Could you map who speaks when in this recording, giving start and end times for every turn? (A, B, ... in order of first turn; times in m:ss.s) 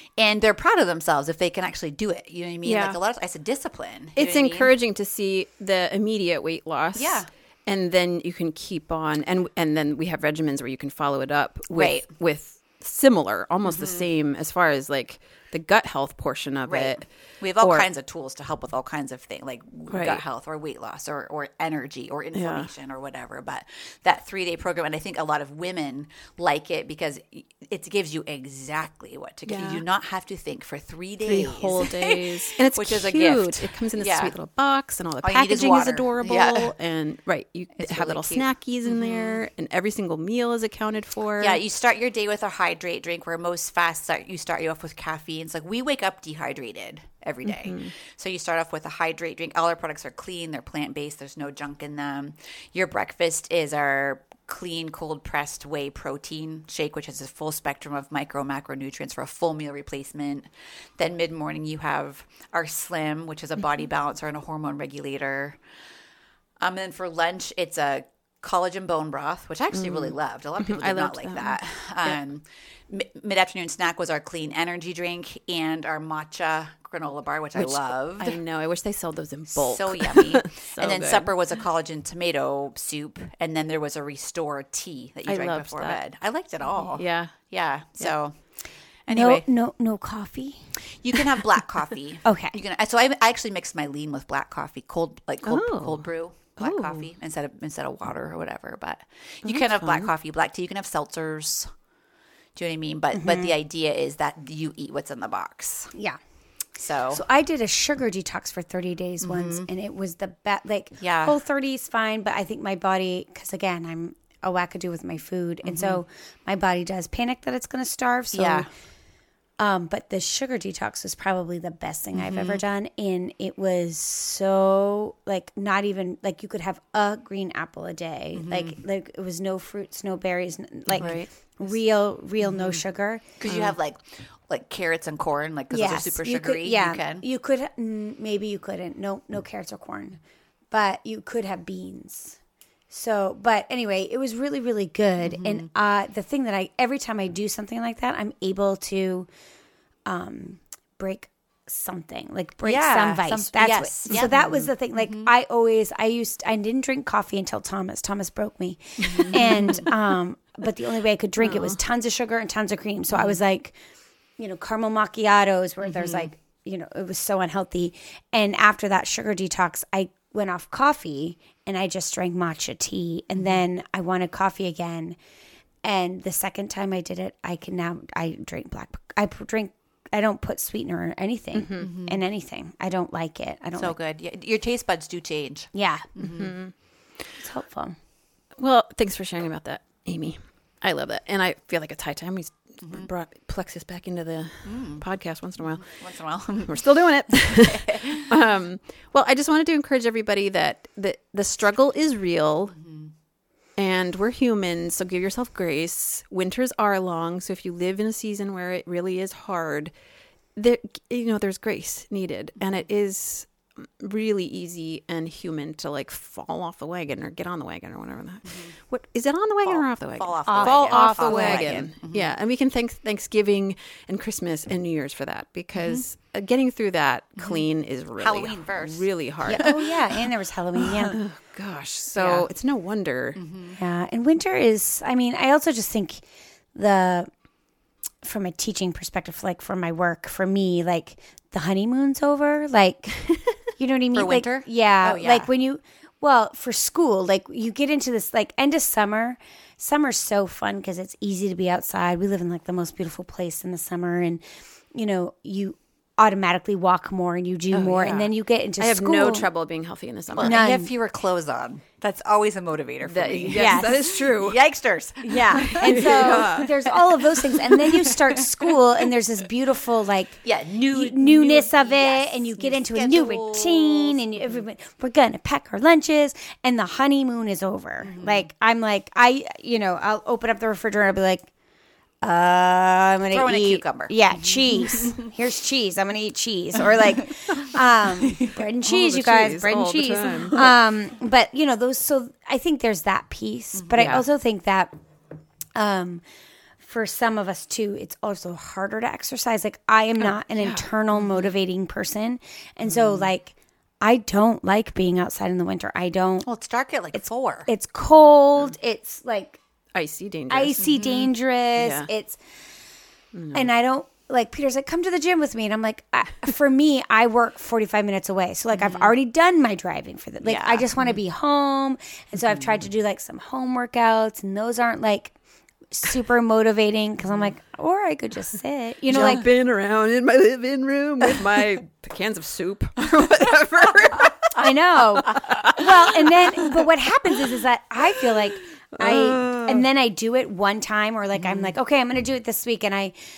0:00.2-0:04.7 A
0:02.6-0:03.0 B
0:04.2-0:17.0 B
0:06.9-0:07.3 A
0:11.7-0:12.0 A
0:13.6-0:14.1 A
0:16.7-0:34.4 A
0:17.6-0:17.9 B
0:19.9-0:20.2 B
0:22.3-0:22.7 B
0:29.5-0:29.8 B
0:31.2-0:41.6 B
0:35.2-0:36.7 A
0:37.8-0:39.4 A
0:41.4-1:05.6 A
0:47.4-0:47.9 B
1:06.6-1:18.4 A
1:09.7-1:12.2 B
1:17.6-1:21.3 B
1:19.5-1:28.3 A
1:25.2-1:26.0 B
1:26.8-1:27.4 B
1:29.0-1:29.4 A
1:29.1-1:30.7 C
1:31.0-1:41.7 A
1:32.2-1:32.5 C
1:35.4-1:36.0 B
1:36.6-1:37.1 B
1:39.4-1:40.1 B
1:42.5-1:45.9 A
1:43.1-1:43.5 C
1:46.8-1:47.2 A
1:47.1-1:58.7 C
1:49.2-1:49.7 A
1:51.0-1:51.4 A
1:55.6-1:56.0 A
1:58.3-1:58.7 A
1:59.6-2:13.2 C
2:02.1-2:02.6 A
2:08.3-2:08.8 A
2:11.0-2:11.3 B
2:12.4-2:12.8 A
2:13.4-2:17.2 A
2:13.4-2:13.7 B
2:15.7-2:20.2 C
2:20.7-2:22.4 C
2:22.9-2:29.3 C
2:25.2-2:25.7 A
2:30.0-2:43.7 C
2:32.6-2:35.3 A
2:39.1-2:39.5 A
2:41.4-2:41.8 B
2:44.4-2:55.2 C
2:45.8-2:46.3 A
2:55.8-3:03.9 C
3:01.5-3:01.9 B
3:01.8-3:02.2 A
3:03.8-3:06.6 A
3:05.7-3:06.2 C
3:06.2-3:06.7 B
3:07.4-3:08.0 C
3:08.6-3:15.9 B
3:12.8-3:13.1 A
3:14.6-3:15.0 A
3:15.6-3:18.4 A
3:16.6-3:22.7 B
3:22.8-3:23.1 A
3:23.8-3:29.9 B
3:30.6-3:49.8 B
3:39.6-3:42.3 A
3:40.4-3:41.8 C
3:45.8-3:46.0 A
3:47.4-3:47.6 A
3:48.2-3:49.9 A
3:49.5-3:51.2 C
3:50.8-3:53.4 B
3:52.2-3:52.4 A
3:53.4-3:53.8 A
3:53.8-3:56.2 C
3:56.7-3:57.3 C
3:58.2-4:14.4 C
4:04.1-4:05.5 A
4:14.9-4:19.5 C
4:17.7-4:20.6 B
4:20.3-4:28.8 A
4:20.4-4:20.9 C
4:23.0-4:24.6 B
4:23.5-4:24.0 C
4:25.2-4:30.4 C
4:25.5-4:26.7 B
4:30.4-4:34.2 A
4:30.9-4:41.5 C
4:38.0-4:38.5 A
4:42.2-4:54.9 C
4:43.2-4:45.3 A
4:48.2-4:48.5 A
4:48.8-4:50.7 B
4:53.8-4:54.1 A
4:53.9-4:54.2 B
4:55.7-4:56.2 C
4:56.8-5:06.5 C
5:00.5-5:00.9 B
5:02.9-5:03.3 B
5:06.4-5:07.7 A
5:07.1-5:09.6 C
5:09.9-5:10.8 B
5:10.5-5:12.4 C
5:10.8-5:11.3 A
5:11.8-5:12.1 B
5:13.3-5:13.7 B
5:13.5-5:25.3 C
5:18.8-5:19.1 A
5:20.4-5:21.2 A
5:25.9-5:29.4 C
5:29.1-5:34.5 B
5:34.2-5:34.6 A
5:34.6-5:43.1 C
5:35.1-5:36.9 B
5:38.9-5:39.9 B